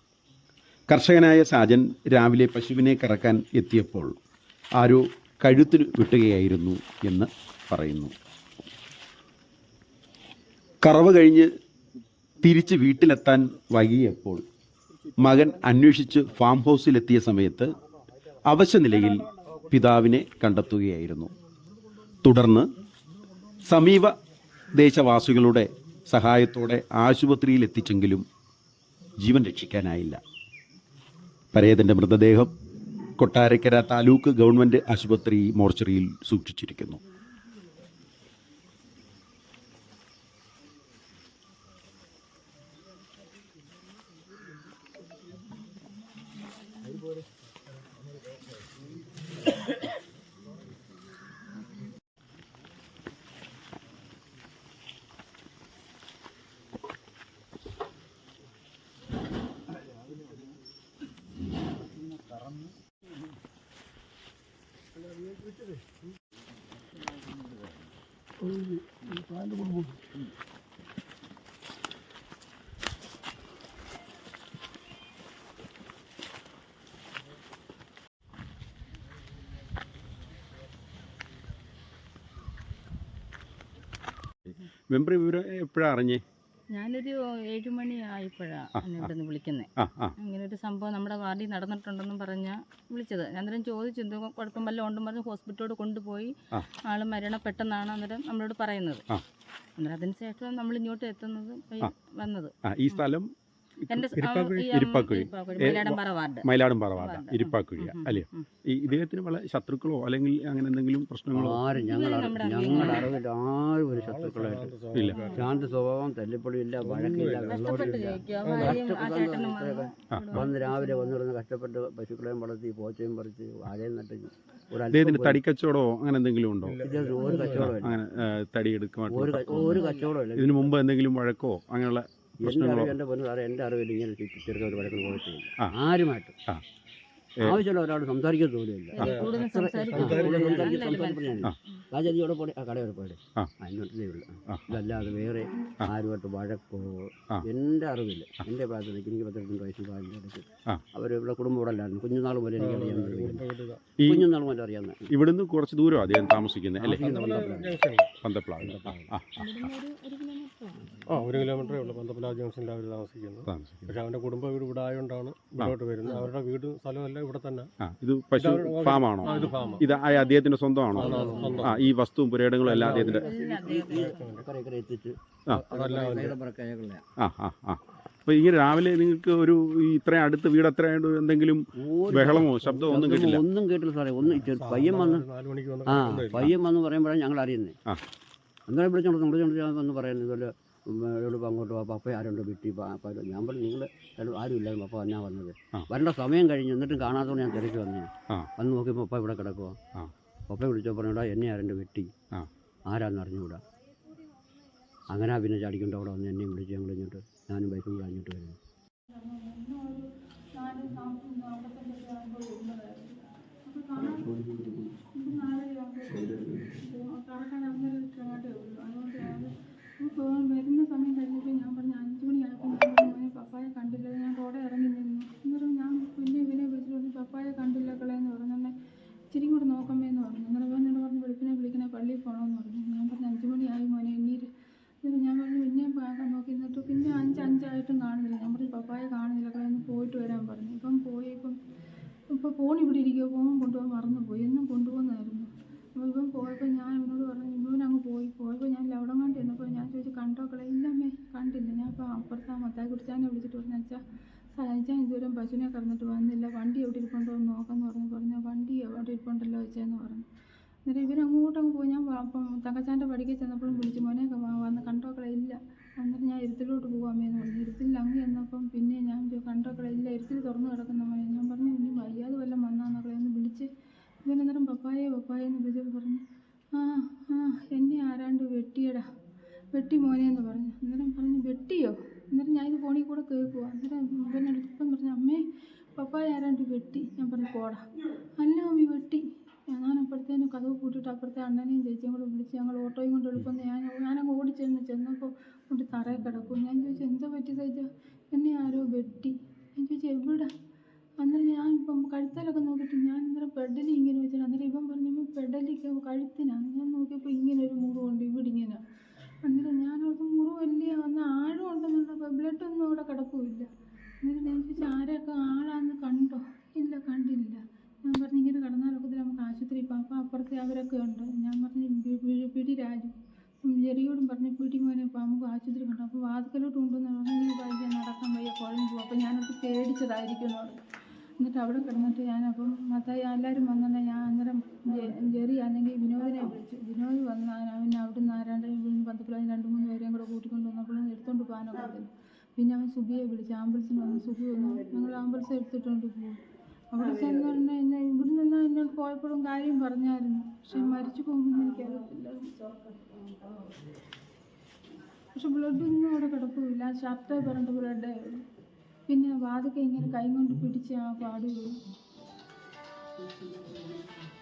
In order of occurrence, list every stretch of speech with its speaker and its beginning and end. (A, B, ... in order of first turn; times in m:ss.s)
0:00.9-0:04.2 A
0:04.8-0:08.1 A
0:10.8-0:11.5 A
0:12.4-0:14.4 A
0:15.2-0:17.7 A
0:18.4-0:21.3 A
0:22.2-0:22.7 A
0:23.7-0:24.1 A
0:24.7-0:28.3 A
0:29.2-0:30.2 A
0:31.5-0:32.5 A
0:33.2-0:37.0 A
1:24.9-1:26.2 A
1:26.7-1:29.7 B
1:28.8-1:29.1 A
1:29.8-1:30.1 A
1:30.2-1:39.0 B
1:39.8-1:43.0 B
1:42.7-1:43.3 A
1:43.9-1:48.4 B
1:44.1-1:44.7 C
1:44.7-1:51.6 A
1:51.3-1:54.7 D
1:51.7-1:53.1 B
1:53.9-1:55.4 C
1:54.9-1:55.2 A
1:55.1-1:55.5 B
1:55.3-2:05.4 D
1:56.8-1:58.8 C
1:57.5-2:01.1 B
2:04.9-2:06.8 A
2:06.6-2:07.7 C
2:06.8-2:08.0 D
2:07.2-2:07.5 B
2:07.4-2:09.8 A
2:09.1-2:10.8 D
2:09.5-2:10.1 B
2:10.4-2:12.9 A
2:12.4-2:16.3 D
2:17.4-2:33.5 D
2:19.0-2:21.6 B
2:19.0-2:19.3 C
2:19.9-2:20.8 C
2:24.5-2:24.8 A
2:32.6-2:33.8 C
2:34.0-2:34.2 A
2:34.0-2:35.1 D
2:35.1-2:37.5 A
2:36.8-2:38.1 C
2:37.0-2:37.8 D
2:38.2-2:39.4 A
2:38.6-2:39.1 D
2:39.4-2:42.0 B
2:41.1-2:47.7 C
2:43.5-2:43.9 A
2:47.8-2:53.2 A
2:48.3-2:49.9 C
2:49.2-2:50.4 B
2:50.9-2:51.9 C
2:51.0-2:51.8 B
2:51.0-2:51.6 D
2:52.6-2:53.2 C
2:52.8-2:55.2 D
2:53.0-2:54.2 B
2:54.0-2:54.5 C
2:55.5-2:56.4 C
2:55.7-2:57.0 D
2:57.2-3:03.4 A
3:01.8-3:05.2 D
3:04.2-3:06.5 C
3:05.9-3:07.8 D
3:08.7-3:19.8 D
3:20.5-3:22.1 D
3:22.9-3:23.6 D
3:25.1-3:28.6 D
3:29.1-3:34.4 E
3:34.3-3:34.8 D
3:35.0-3:48.7 E
3:49.3-3:54.5 E
3:55.0-4:01.6 E
4:02.3-4:14.0 E
4:14.5-4:20.2 E
4:20.8-4:33.7 E
4:34.2-4:36.2 E
4:36.7-4:39.0 E
4:39.7-4:45.4 E
4:46.0-4:47.8 E
4:48.4-5:00.5 E
5:01.2-5:08.8 E
5:09.4-5:13.7 E
5:14.2-5:30.8 E
5:31.4-5:46.4 E
5:46.9-5:52.5 E
5:55.4-5:58.2 E
5:59.1-6:01.6 E